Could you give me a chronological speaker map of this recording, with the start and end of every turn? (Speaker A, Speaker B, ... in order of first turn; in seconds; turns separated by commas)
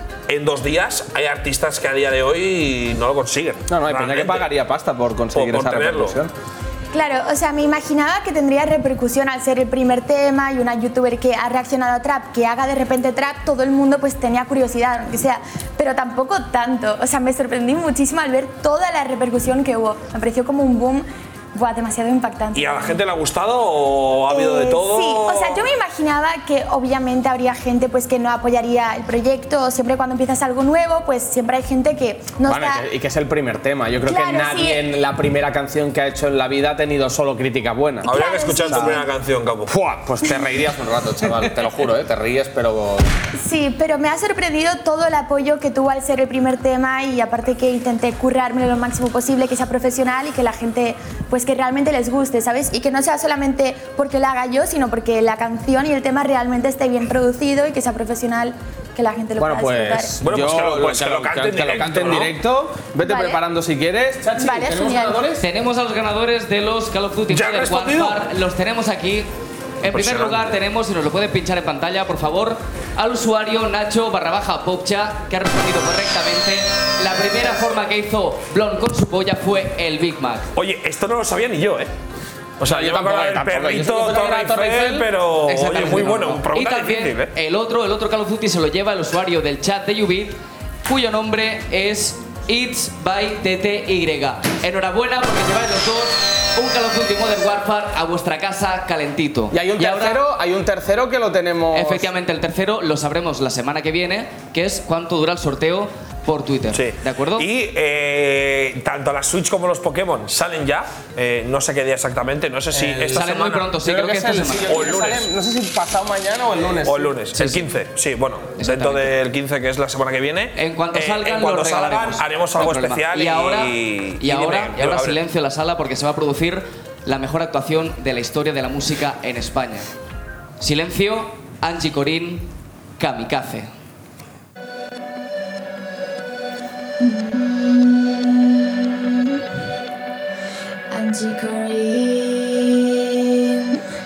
Speaker A: 0.3-4.5, Speaker B: 3.7-6.3, Speaker A: 5.3-6.2, Speaker C: 6.9-23.0, Speaker A: 22.5-25.7, Speaker C: 24.3-32.9, Speaker B: 32.4-39.0, Speaker C: 34.0-34.8, Speaker C: 38.0-39.0, Speaker A: 38.0-39.7, Speaker B: 39.7-43.0, Speaker C: 43.4-60.2, Speaker B: 59.4-65.4, Speaker A: 60.2-62.4, Speaker C: 63.0-63.4, Speaker C: 64.3-65.2, Speaker D: 65.4-69.3, Speaker A: 67.3-68.2, Speaker D: 69.8-80.5, Speaker A: 69.9-70.6, Speaker A: 80.5-81.9, Speaker A: 82.6-87.3, Speaker B: 82.6-85.1, Speaker D: 85.5-100.2, Speaker B: 99.5-102.1, Speaker D: 101.7-107.5, Speaker A: 106.7-113.7, Speaker B: 112.7-117.1, Speaker D: 113.1-114.8, Speaker A: 114.6-115.3, Speaker A: 116.8-125.2, Speaker D: 117.3-117.7, Speaker D: 118.5-119.1, Speaker D: 120.5-129.9, Speaker D: 130.6-132.5, Speaker D: 133.0-133.7, Speaker E: 137.0-139.4, Speaker E: 140.9-143.8